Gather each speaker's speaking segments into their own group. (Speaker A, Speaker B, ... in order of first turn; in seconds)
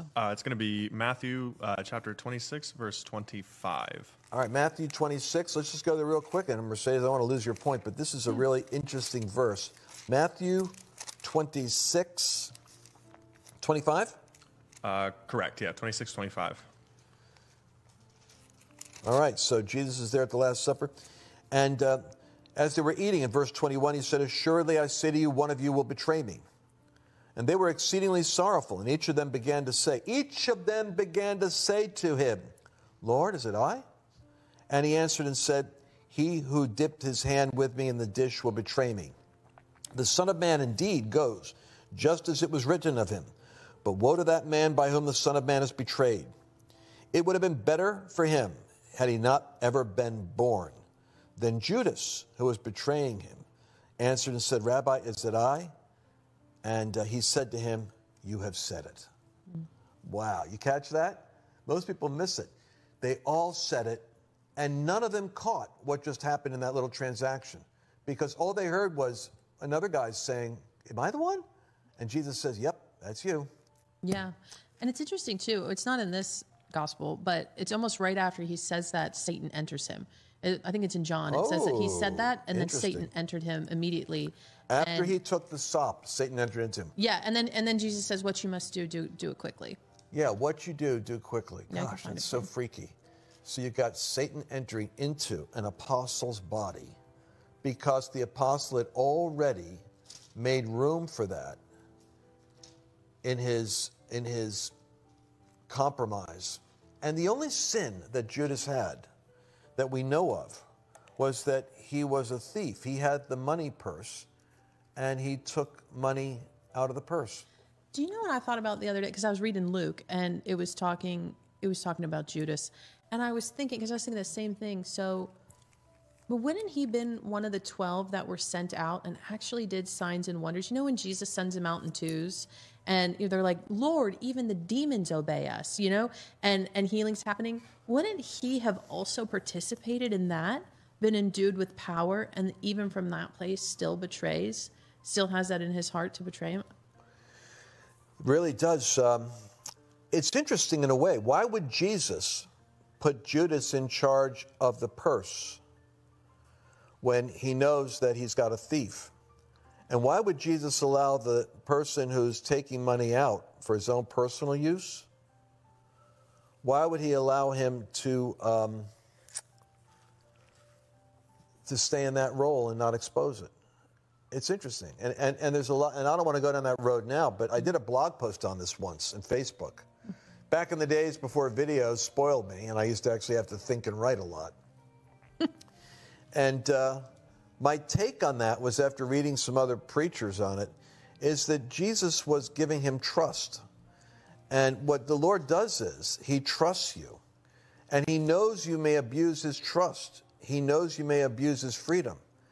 Speaker A: 0.1-4.1, 14.8-16.6
Speaker B: 4.3-12.5, 13.6-14.2, 19.0-20.9, 21.5-26.4, 27.4-32.5, 33.0-33.8, 34.7-39.1, 39.9-43.3, 43.8-46.3, 47.1-50.8, 51.4-53.4, 54.0-55.7, 56.6-59.1, 60.0-71.4, 72.0-73.5, 81.3-83.1, 84.7-86.9, 90.1-97.0, 97.6-99.8, 100.3-101.6, 103.2-104.7, 105.7-109.1, 109.8-110.7, 111.2-114.3, 115.0-117.5, 148.2-149.3, 150.1-152.5, 153.0-155.6, 157.0-159.1, 159.9-165.1, 166.6-168.9, 171.7-173.5, 174.3-179.9, 180.5-184.5, 186.3-187.1, 187.6-193.6, 194.5-197.2, 197.9-202.2
Speaker C: 74.0-85.1, 87.0-89.8, 91.7-92.5, 117.9-125.3, 126.3-146.6